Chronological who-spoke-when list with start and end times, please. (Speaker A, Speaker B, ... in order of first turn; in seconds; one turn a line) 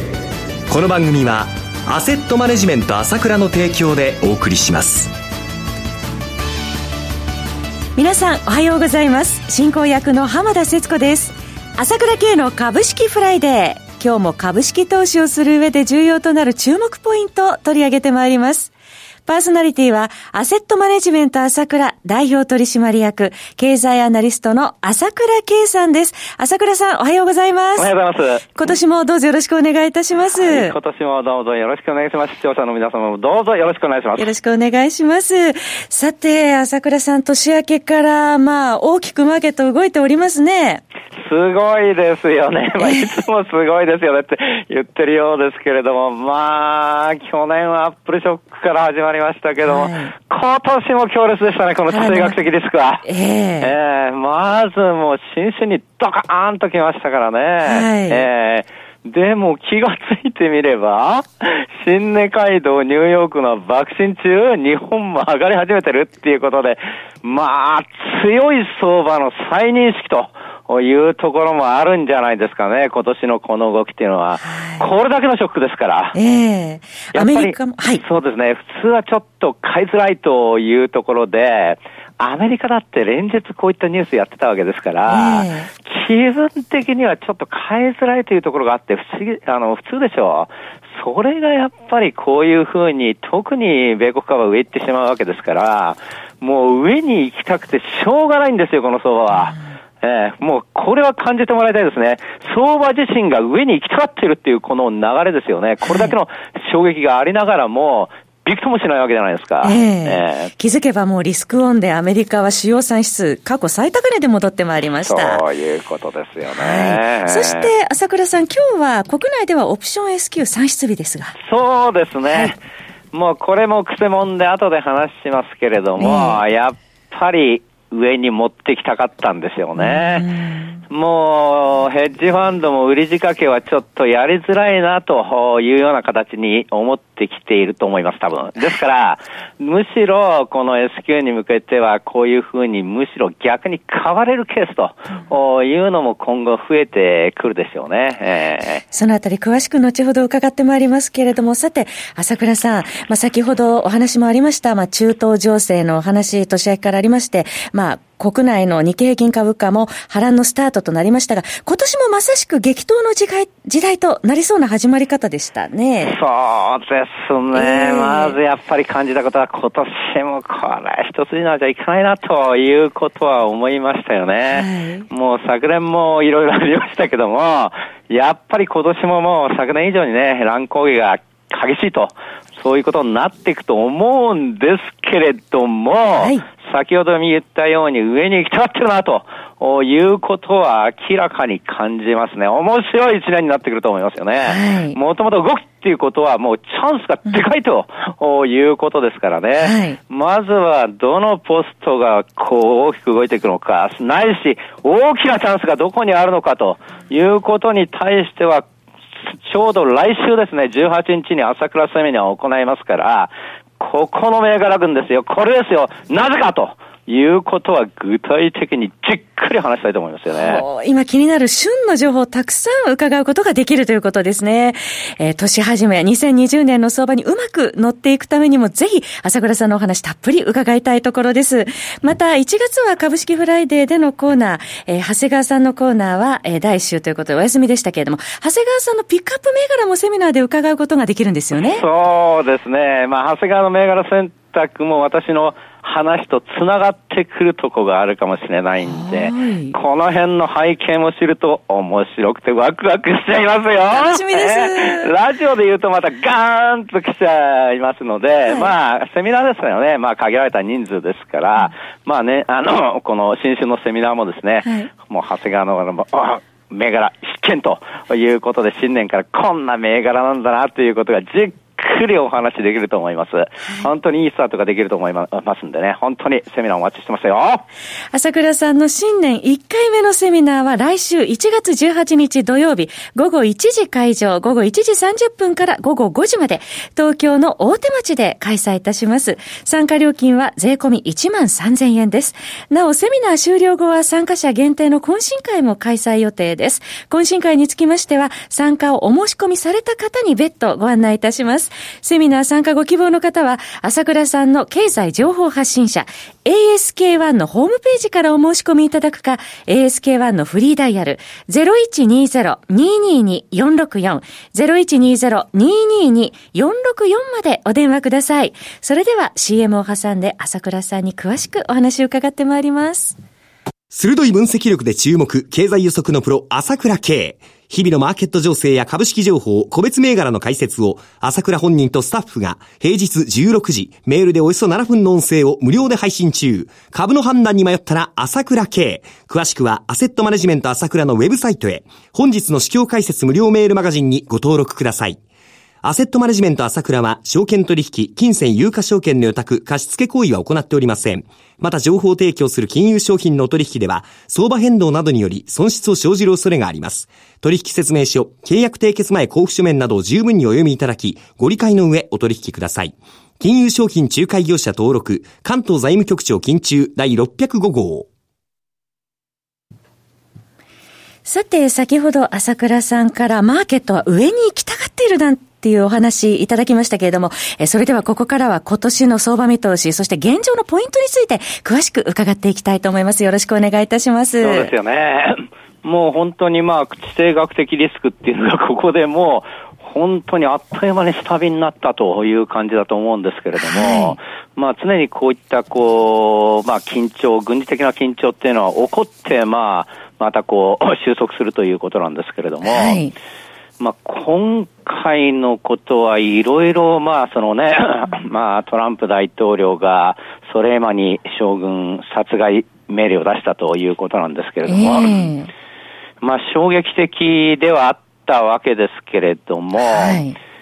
Speaker A: 0.7-5.1
Speaker B: 8.0-18.7
Speaker B: 19.3-27.9
Speaker C: 27.8-28.5
Speaker B: 28.6-30.7
Speaker C: 30.4-34.3
Speaker B: 34.2-40.8
Speaker C: 41.1-53.0
Speaker B: 42.8-43.0
Speaker B: 49.6-50.1
Speaker B: 51.9-52.4
Speaker B: 53.0-53.7
Speaker C: 53.6-76.2
Speaker B: 57.6-58.3
Speaker B: 74.4-74.8
Speaker B: 76.1-78.0
Speaker C: 77.1-110.5
Speaker B: 85.1-85.7
Speaker B: 105.8-106.1
Speaker B: 109.6-115.4
Speaker C: 115.0-117.7
Speaker B: 116.5-121.3
Speaker C: 121.4-122.6
Speaker C: 123.1-130.3
Speaker B: 126.0-126.4
Speaker B: 129.8-130.8
Speaker C: 130.9-148.8
Speaker B: 148.9-166.2
Speaker C: 166.0-208.7
Speaker B: 167.5-168.4
Speaker B: 174.5-175.1
Speaker B: 186.2-186.4
Speaker B: 194.4-195.0
Speaker B: 199.6-200.0
Speaker C: 209.2-220.6
Speaker B: 220.3-241.8
Speaker C: 241.5-277.6
Speaker B: 248.8-249.8
Speaker B: 253.9-255.1
Speaker B: 258.5-258.7
Speaker B: 278.1-323.2
Speaker A: 323.9-345.2
Speaker A: 345.8-368.1
Speaker B: 371.3-384.7
Speaker C: 384.4-403.1
Speaker B: 393.6-394.2
Speaker B: 402.6-403.1
Speaker C: 403.8-415.3
Speaker B: 414.7-415.5
Speaker C: 416.2-420.2
Speaker B: 419.8-420.4